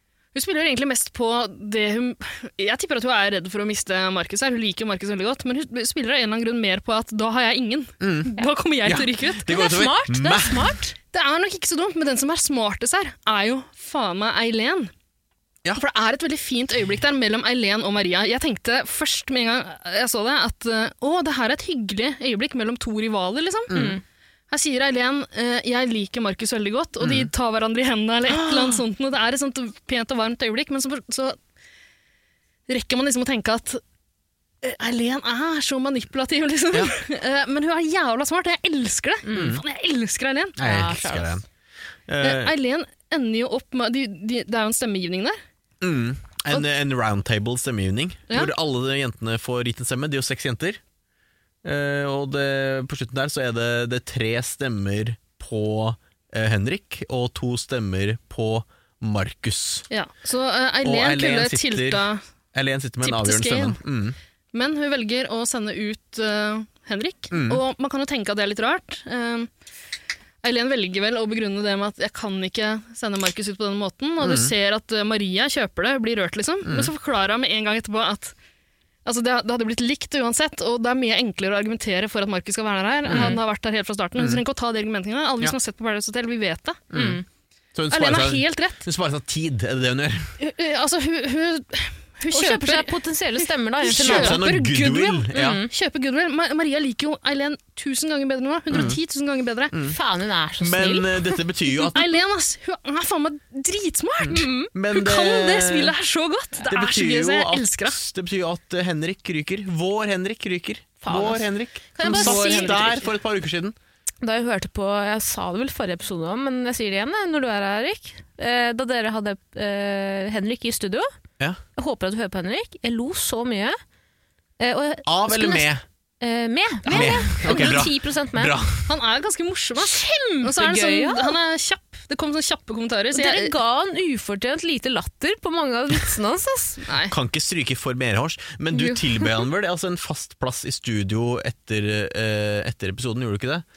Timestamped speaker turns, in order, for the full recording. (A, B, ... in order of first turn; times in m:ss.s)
0:00.3-0:09.5 A
0:08.0-0:08.3 B
0:08.8-0:10.7 B
0:09.5-0:10.9 C
0:11.1-0:14.9 A
0:15.7-0:23.9 A
0:23.7-0:24.0 B
0:23.7-0:24.0 C
0:24.5-0:31.4 A
0:27.0-0:27.3 B
0:28.3-0:28.8 B
0:32.7-0:33.8 A
0:34.6-0:40.6 A
0:39.2-0:39.6 C
0:39.3-0:39.6 B
0:40.6-0:41.4 B
0:40.6-0:41.4 C
0:42.1-0:42.5 B
0:42.2-0:45.4 A
0:45.8-0:50.8 B
0:51.6-0:59.8 B
0:59.9-1:02.2 A
1:00.8-1:04.2 B
1:03.0-1:03.8 A
1:04.5-1:09.5 A
1:07.3-1:07.6 B
1:10.4-1:18.3 A
1:14.2-1:14.5 B
1:16.6-1:16.9 B
1:19.0-1:26.8 A
1:23.1-1:23.4 C
1:23.1-1:23.3 B
1:26.9-1:27.2 B
1:26.9-1:27.2 C
1:27.7-1:30.3 B
1:27.9-1:28.8 A
1:30.4-1:33.0 A
1:32.3-1:34.4 C
1:33.8-1:39.7 A
1:33.9-1:35.6 B
1:35.3-1:35.7 C
1:38.7-1:39.0 B
1:39.7-1:40.0 B
1:39.9-1:41.4 C
1:40.6-1:42.2 B
1:41.8-1:48.0 A
1:44.2-1:45.9 B
1:44.3-1:44.7 C
1:46.6-1:53.8 B
1:51.0-1:53.0 C
1:52.0-1:53.1 A
1:54.2-2:01.1 C
2:01.7-2:03.8 C
2:04.6-2:05.7 C
2:05.0-2:05.8 B
2:06.2-2:08.5 C
2:06.8-2:08.9 B
2:06.9-2:07.8 A
2:08.8-2:13.5 A
2:09.8-2:11.4 C
2:13.1-2:16.8 C
2:16.8-2:17.1 A
2:17.1-2:23.6 B
2:18.7-2:19.4 C